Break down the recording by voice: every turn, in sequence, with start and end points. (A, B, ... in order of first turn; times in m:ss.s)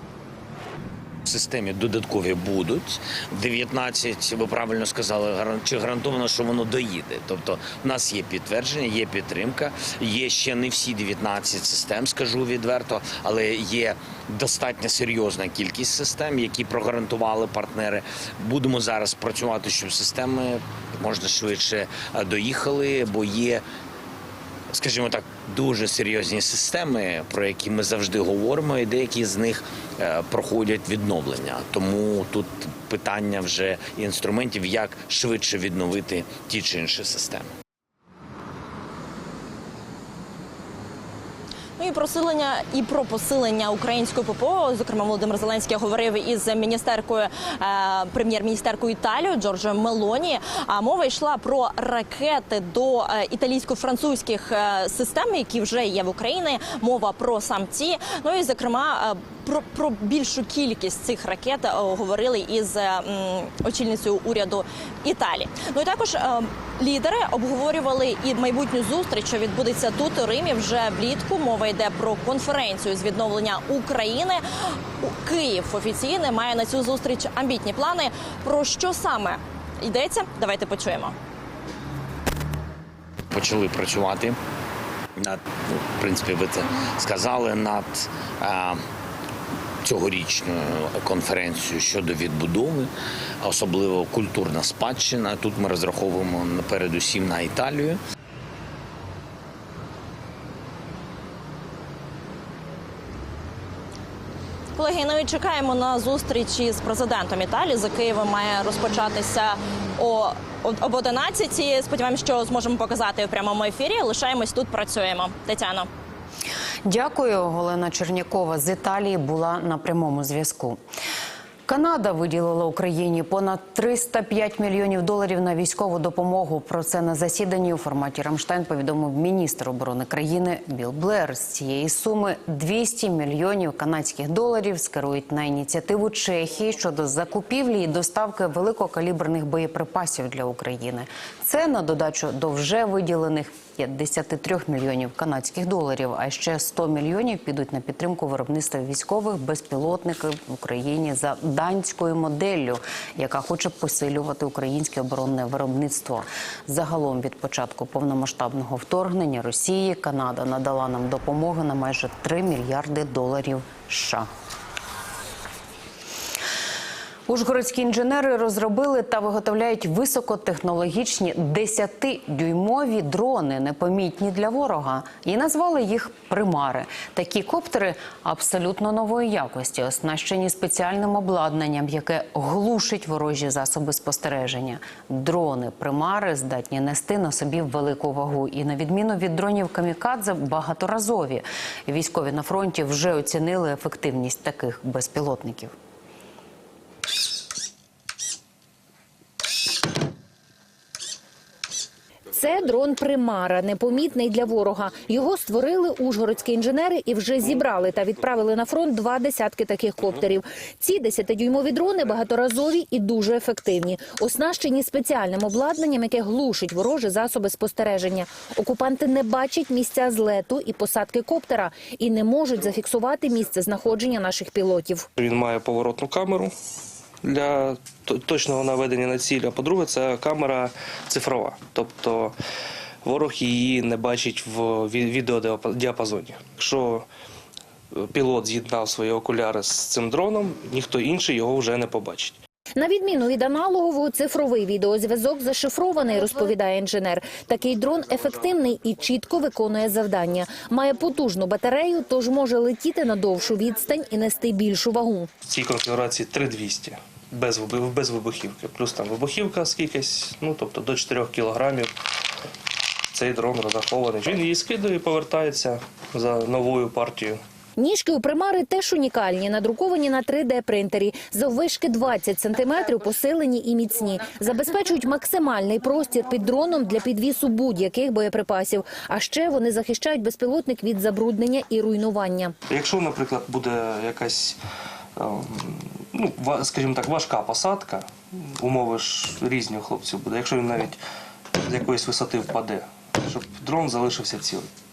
0:01.2-0:23.6 A
0:24.7-0:37.5 A
0:41.8-1:14.4 B
1:15.0-1:21.2 B
1:23.3-1:24.4 A
1:25.2-1:28.8 A
1:29.8-1:32.9 A
1:33.4-1:38.0 A
1:44.8-1:55.9 B
1:56.8-2:00.8 C
2:01.7-2:44.3 C
2:47.3-3:15.7 C
3:22.3-3:45.0 D
3:45.2-3:46.5 E
3:47.2-3:52.4 E
3:53.0-3:57.1 E
3:57.9-4:02.4 E
4:02.8-4:15.3 D
4:15.4-4:22.0 E
4:23.1-4:27.4 E
4:27.8-4:42.5 D
4:42.7-4:44.6 E
4:45.2-4:51.0 E
4:51.6-4:54.7 E